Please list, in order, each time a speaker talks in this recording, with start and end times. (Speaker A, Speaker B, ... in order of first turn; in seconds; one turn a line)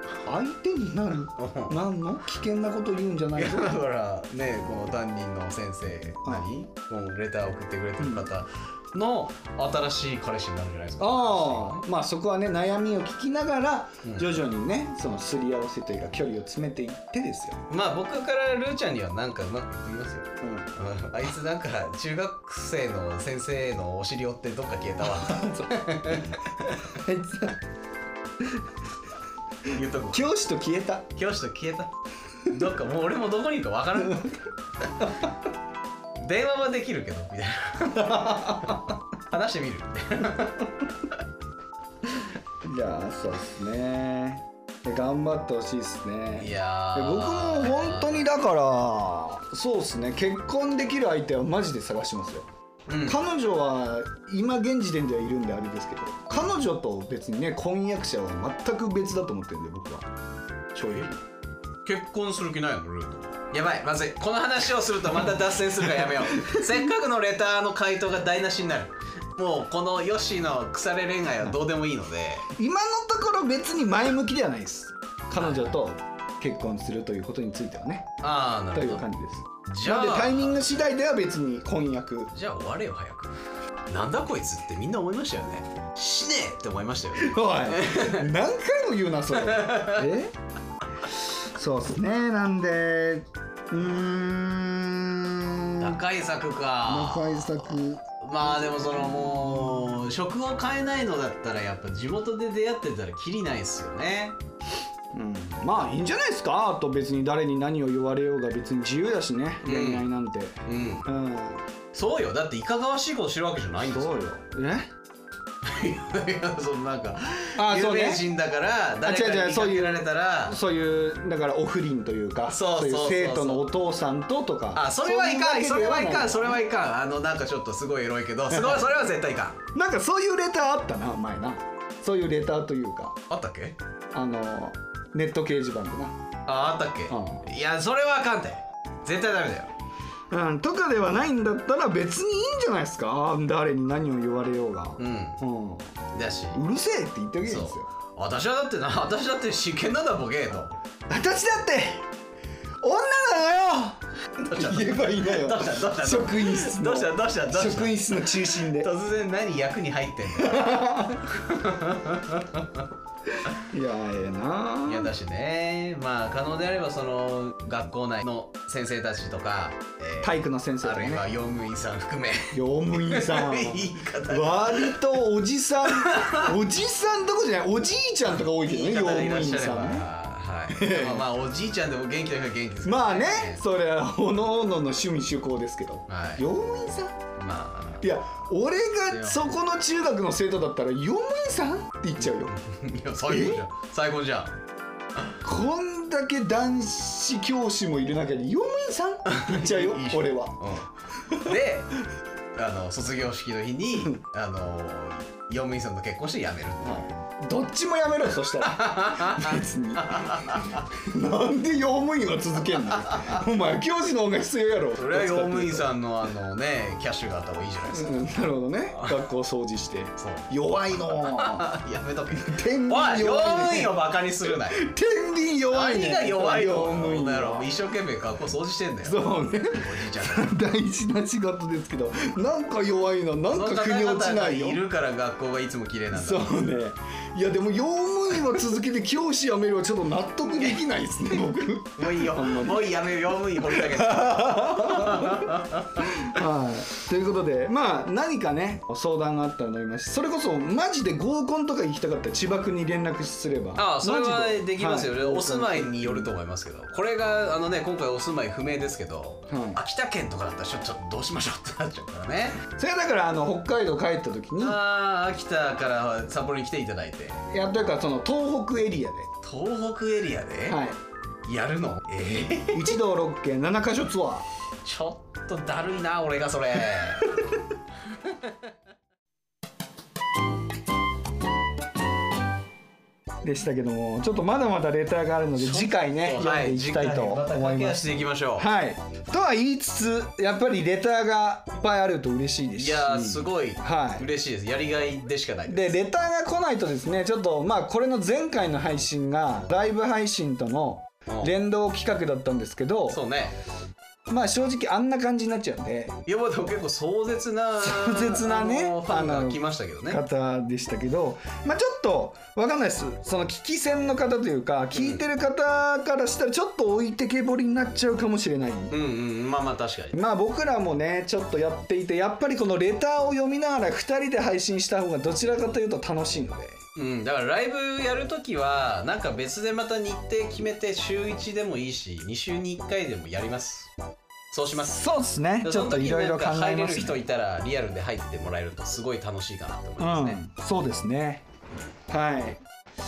Speaker A: 0.2-3.8
Speaker B: 1.4-1.8
Speaker B: 3.4-11.8
Speaker A: 8.0-8.3
Speaker A: 11.0-17.6
Speaker B: 14.0-14.3
Speaker B: 17.7-26.9
Speaker A: 20.4-20.7
Speaker A: 25.1-26.2
Speaker A: 26.9-27.6
Speaker B: 29.7-30.2
Speaker A: 30.1-31.1
Speaker B: 31.1-31.9
Speaker B: 32.4-34.4
Speaker B: 36.2-40.7
Speaker A: 38.0-38.9
Speaker A: 42.6-52.5
Speaker B: 46.3-48.3
Speaker B: 52.9-53.2
Speaker A: 53.0-60.1
Speaker A: 60.8-61.2
Speaker B: 61.9-72.5
Speaker A: 66.3-66.7
Speaker A: 72.5-78.2
Speaker B: 75.4-75.8
Speaker B: 78.2-79.1
Speaker A: 78.7-82.3
Speaker B: 79.7-80.7
Speaker B: 82.3-88.3
Speaker A: 87.2-90.3
Speaker B: 89.4-90.1
Speaker A: 91.2-96.0
Speaker B: 95.8-104.4
Speaker A: 96.9-99.5
Speaker A: 105.1-111.7
Speaker B: 109.6-110.0
Speaker B: 110.7-111.1
Speaker B: 111.9-114.2
Speaker A: 113.9-114.9
Speaker B: 115.6-120.6
Speaker A: 117.6-118.3
Speaker A: 119.0-126.6
Speaker B: 122.5-123.7
Speaker B: 124.8-129.6
Speaker A: 128.5-128.8
Speaker A: 129.7-133.2
Speaker B: 133.3-133.8
Speaker A: 134.1-136.2
Speaker B: 136.5-139.7
Speaker A: 137.1-137.4
Speaker A: 140.3-146.0
Speaker B: 145.0-145.4
Speaker B: 146.1-146.6
Speaker A: 146.5-147.9
Speaker B: 147.5-150.7
Speaker A: 151.1-152.1
Speaker A: 152.8-158.9
Speaker B: 154.4-162.8
Speaker A: 160.3-161.3
Speaker A: 163.5-165.2
Speaker B: 164.8-175.0
Speaker A: 170.2-171.2
Speaker A: 172.5-180.1
Speaker B: 175.9-176.5
Speaker B: 178.4-183.6
Speaker A: 180.7-181.3
Speaker A: 182.8-187.2
Speaker B: 186.1-186.5
Speaker B: 187.4-188.1
Speaker A: 188.0-192.6
Speaker B: 189.1-189.5
Speaker B: 192.2-194.6
Speaker A: 193.2-193.6
Speaker A: 195.4-201.6
Speaker B: 199.3-202.0
Speaker B: 202.6-207.1
Speaker A: 206.8-215.9
Speaker B: 208.6-210.8
Speaker B: 213.1-213.4
Speaker B: 215.0-218.2
Speaker A: 217.9-221.7
Speaker B: 220.2-220.5
Speaker B: 221.1-224.9
Speaker A: 222.3-227.7
Speaker B: 225.7-230.5
Speaker A: 229.0-234.8
Speaker B: 233.5-236.5
Speaker A: 236.1-243.1
Speaker B: 240.5-240.8
Speaker B: 242.0-246.3
Speaker A: 243.7-256.3
Speaker B: 253.8-262.6
Speaker A: 259.5-259.8
Speaker A: 262.8-264.8
Speaker B: 264.6-267.4
Speaker A: 267.5-269.3
Speaker B: 269.4-270.8
Speaker A: 270.7-271.0
Speaker B: 271.5-273.0
Speaker A: 272.7-274.5
Speaker B: 274.8-277.3
Speaker A: 277.0-277.4
Speaker B: 278.2-278.6
Speaker A: 283.4-288.0
Speaker B: 285.6-288.7
Speaker A: 288.6-294.3
Speaker B: 292.8-296.0
Speaker A: 295.7-303.2
Speaker B: 303.1-303.6
Speaker A: 304.3-306.2
Speaker B: 306.3-310.2
Speaker A: 307.8-319.0
Speaker B: 314.9-315.2
Speaker B: 318.9-320.2
Speaker A: 320.1-326.8
Speaker B: 327.0-333.9
Speaker B: 334.5-335.0
Speaker A: 334.8-337.2
Speaker B: 335.6-340.4
Speaker A: 340.0-341.4
Speaker A: 342.1-342.6